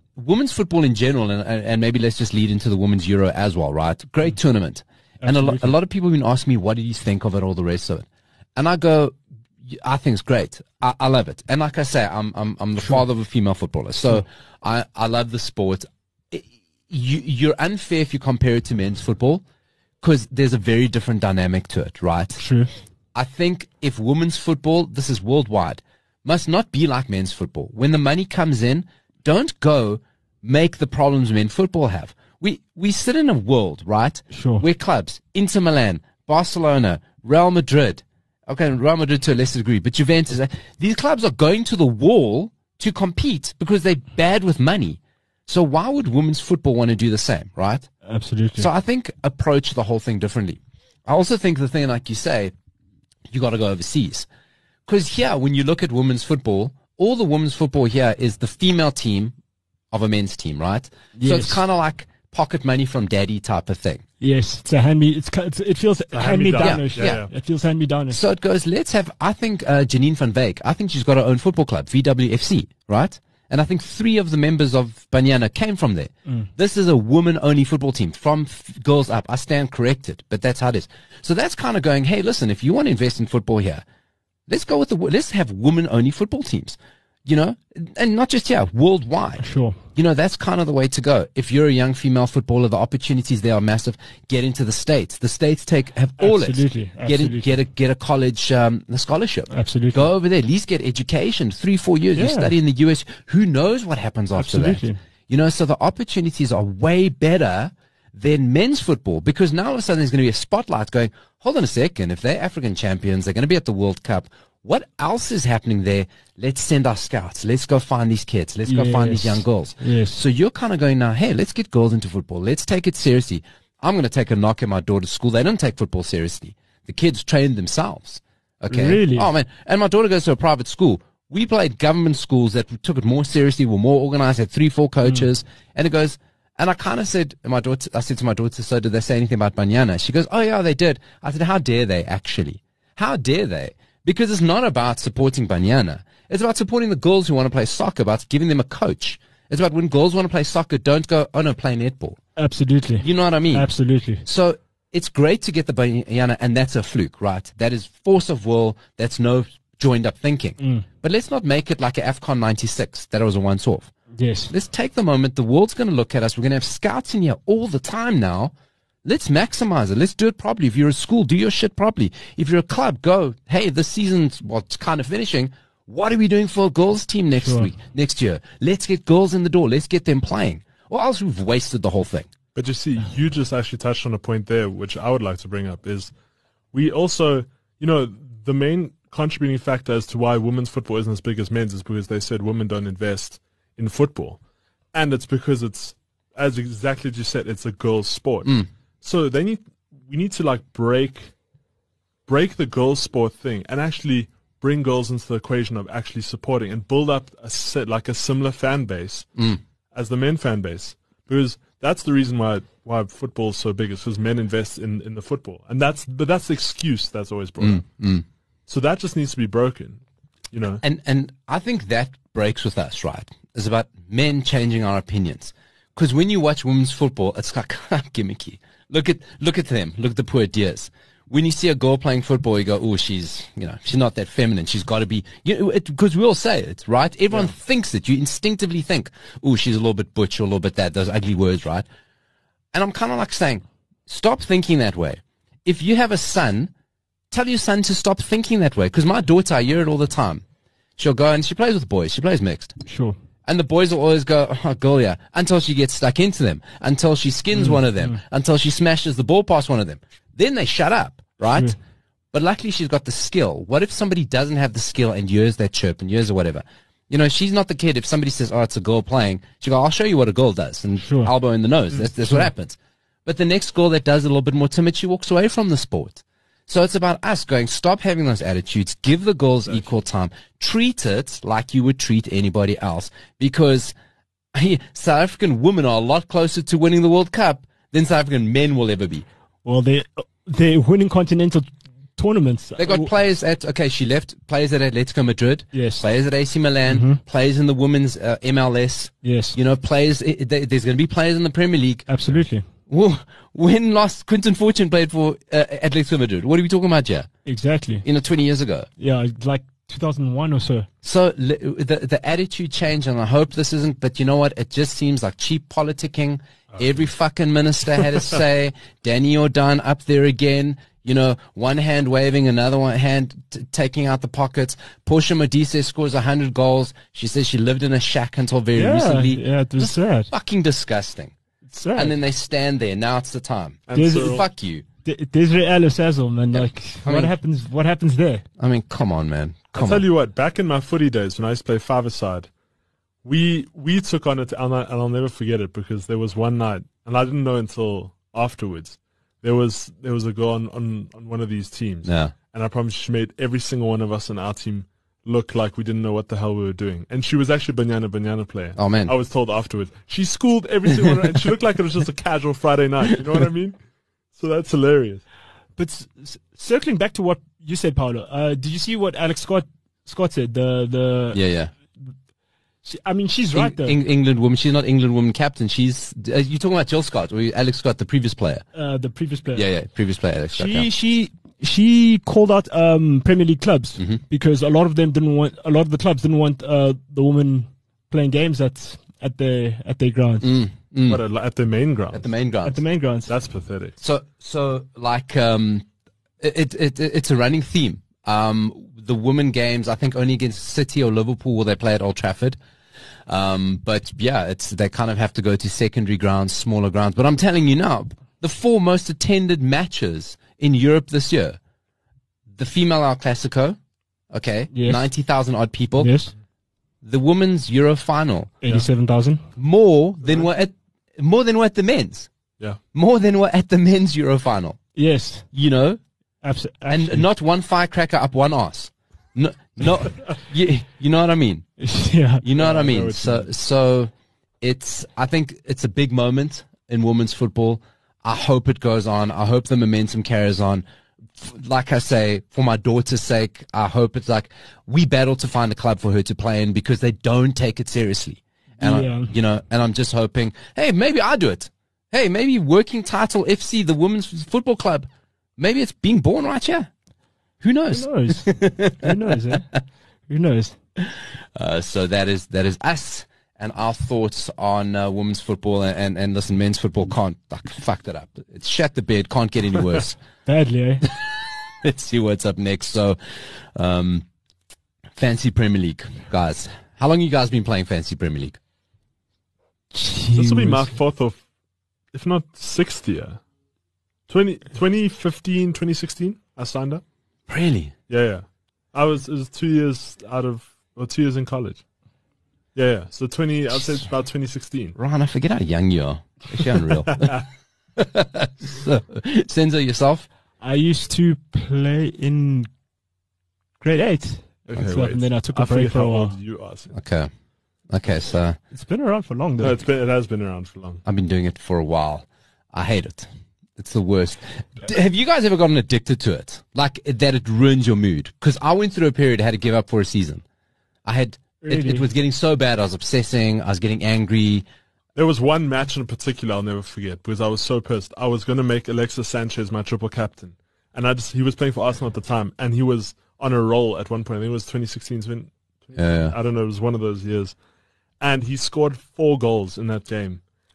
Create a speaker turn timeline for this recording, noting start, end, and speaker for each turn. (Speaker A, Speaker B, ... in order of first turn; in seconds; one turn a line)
Speaker A: 0.1-19.4
Speaker B: 5.2-5.7
Speaker A: 20.0-22.4
Speaker B: 22.4-22.7
Speaker A: 23.1-47.9
Speaker B: 34.3-34.6
Speaker B: 48.0-48.7
Speaker A: 48.6-52.5
Speaker A: 53.3-54.3
Speaker A: 54.9-59.3
Speaker A: 59.9-64.0
Speaker B: 61.2-61.6
Speaker B: 64.2-68.2
Speaker C: 66.1-67.3
Speaker A: 66.6-67.2
Speaker A: 68.1-83.8
Speaker A: 84.5-89.4
Speaker B: 89.4-89.8
Speaker A: 89.9-152.2
Speaker B: 96.2-97.6
Speaker B: 99.5-100.1
Speaker B: 102.1-102.5
Speaker B: 104.3-105.0
Speaker B: 118.7-120.2
Speaker B: 128.7-129.3
Speaker B: 152.4-154.2
Speaker A: 153.0-153.7
Speaker A: 154.2-163.9
Speaker B: 160.6-160.8
Speaker B: 164.2-164.5
Speaker A: 164.5-168.5
Speaker A: 169.0-182.3
Speaker B: 177.4-177.7
Speaker C: 182.5-186.1
Speaker C: 186.7-194.4
Speaker C: 194.9-201.3
Speaker C: 202.3-209.3
Speaker A: 209.3-209.6
Speaker C: 209.9-217.8
Speaker A: 217.6-218.2
Speaker C: 218.7-220.8
Speaker A: 220.8-241.8
Speaker A: 242.7-246.7
Speaker A: 247.3-250.4
Speaker A: 251.0-252.8
Speaker B: 252.8-253.2
Speaker A: 253.4-261.8
Speaker B: 257.5-258.2
Speaker A: 262.3-283.9
Speaker B: 271.0-271.3
Speaker A: 284.5-289.2
Speaker B: 289.6-293.1
Speaker A: 292.8-302.0
Speaker B: 295.7-296.0
Speaker B: 296.9-297.2
Speaker B: 299.2-299.6
Speaker B: 302.1-302.6
Speaker A: 302.9-307.3
Speaker B: 307.4-308.0
Speaker A: 308.0-308.9
Speaker B: 309.0-310.9
Speaker A: 311.0-331.3
Speaker B: 328.7-330.3
Speaker B: 331.7-332.1
Speaker A: 331.9-334.8
Speaker C: 333.9-334.4
Speaker B: 333.9-334.4
Speaker B: 335.0-338.4
Speaker A: 336.5-337.3
Speaker A: 338.6-340.1
Speaker C: 339.7-342.5
Speaker C: 343.2-363.8
Speaker A: 352.0-352.3
Speaker A: 358.8-359.1
Speaker C: 364.3-365.2
Speaker B: 365.8-371.4
Speaker A: 371.3-371.7
Speaker B: 372.8-374.0
Speaker A: 373.5-378.6
Speaker B: 378.7-379.7
Speaker A: 379.5-380.9
Speaker B: 380.5-390.5
Speaker A: 390.4-391.2
Speaker C: 391.1-392.2
Speaker A: 392.1-392.8
Speaker B: 392.6-393.3
Speaker C: 393.3-393.9
Speaker A: 394.0-395.9
Speaker A: 396.4-402.6
Speaker A: 403.3-411.6
Speaker A: 412.6-413.8
Speaker A: 414.3-416.1
Speaker B: 414.7-415.0
Speaker B: 416.0-416.3
Speaker A: 417.0-418.5
Speaker B: 418.6-419.4
Speaker A: 419.6-422.3
Speaker A: 422.9-424.8
Speaker B: 424.9-425.5
Speaker A: 425.5-426.0
Speaker B: 426.4-427.2
Speaker A: 426.9-431.6
Speaker B: 431.8-432.4
Speaker A: 432.4-440.8
Speaker C: 432.5-433.5
Speaker A: 441.4-456.9
Speaker B: 448.8-449.3
Speaker A: 457.6-459.6
Speaker B: 457.9-459.7
Speaker B: 460.3-460.8
Speaker A: 461.0-470.2
Speaker B: 470.4-471.0
Speaker A: 471.0-473.2
Speaker A: 473.7-474.2
Speaker A: 475.2-478.6
Speaker B: 479.9-480.9
Speaker C: 480.3-481.4
Speaker C: 482.1-483.4
Speaker C: 484.3-487.0
Speaker A: 487.5-487.9
Speaker C: 488.1-491.8
Speaker C: 492.7-494.9
Speaker A: 494.9-497.4
Speaker C: 497.1-497.4
Speaker A: 497.9-500.3
Speaker B: 500.6-502.7
Speaker B: 503.8-506.3
Speaker C: 504.7-506.9
Speaker A: 506.9-507.3
Speaker A: 507.9-508.6
Speaker B: 508.7-509.8
Speaker C: 509.6-511.0
Speaker A: 511.0-520.4
Speaker A: 521.0-524.6
Speaker B: 521.6-522.1
Speaker C: 525.1-537.5
Speaker A: 535.9-536.4
Speaker C: 538.2-540.4